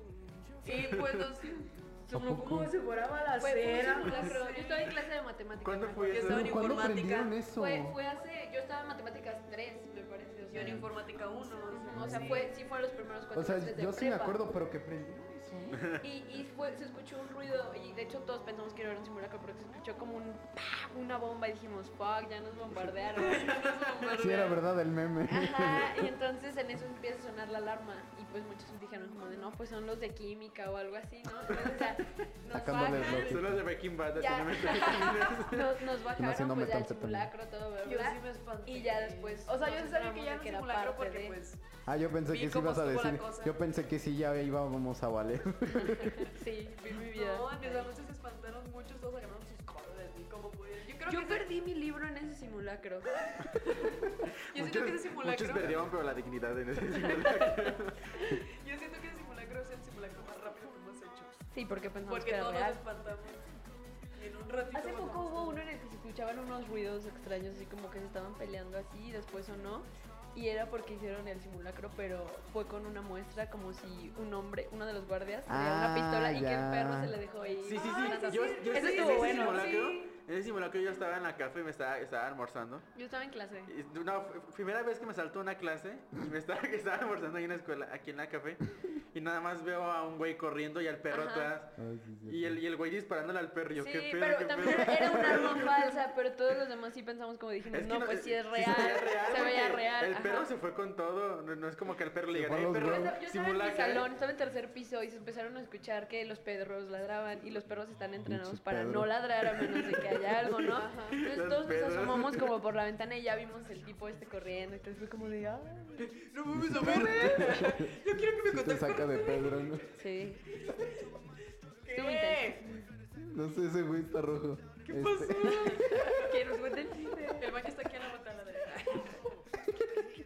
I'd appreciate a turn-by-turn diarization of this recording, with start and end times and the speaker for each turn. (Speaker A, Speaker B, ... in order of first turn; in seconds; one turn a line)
Speaker A: 0.6-5.0
Speaker B: 0.7-1.3
Speaker C: 2.1-2.5
Speaker D: 2.1-2.7
Speaker C: 3.4-6.8
Speaker B: 5.6-6.7
Speaker A: 6.1-7.4
Speaker D: 6.2-8.0
Speaker C: 7.5-10.9
Speaker A: 10.5-12.5
Speaker D: 10.6-10.9
Speaker C: 11.7-14.4
Speaker D: 11.9-12.4
Speaker D: 13.3-15.8
Speaker B: 15.7-16.0
Speaker C: 16.0-23.6
Speaker A: 23.1-24.6
Speaker D: 24.1-26.1
Speaker C: 25.2-33.4
Speaker D: 32.5-33.7
Speaker B: 32.8-35.9
Speaker C: 34.1-41.4
Speaker D: 36.2-37.3
Speaker A: 37.8-41.6
Speaker D: 41.9-46.4
Speaker A: 42.3-43.5
Speaker C: 45.8-47.9
Speaker A: 46.8-51.5
Speaker C: 51.1-53.5
Speaker A: 53.6-55.9
Speaker B: 54.5-58.3
Speaker D: 55.6-55.9
Speaker A: 56.9-61.4
Speaker C: 61.5-62.8
Speaker A: 62.1-63.5
Speaker A: 64.2-65.6
Speaker C: 64.7-79.9
Speaker D: 75.5-77.2
Speaker B: 77.6-82.9
Speaker A: 77.7-80.1
Speaker C: 83.0-83.7
Speaker B: 83.7-96.0
Speaker C: 91.1-91.5
Speaker D: 91.8-92.6
Speaker C: 93.8-100.5
Speaker B: 97.7-104.1
Speaker D: 102.3-103.2
Speaker C: 102.7-116.2
Speaker D: 108.2-109.1
Speaker A: 110.6-111.3
Speaker B: 111.2-112.5
Speaker A: 116.0-119.9
Speaker D: 116.5-120.0
Speaker C: 116.8-117.4
Speaker C: 119.9-120.5
Speaker A: 120.5-121.1
Speaker A: 121.8-122.7
Speaker C: 121.9-122.7
Speaker D: 123.2-125.8
Speaker A: 124.8-126.6
Speaker C: 125.4-127.7
Speaker A: 127.2-129.4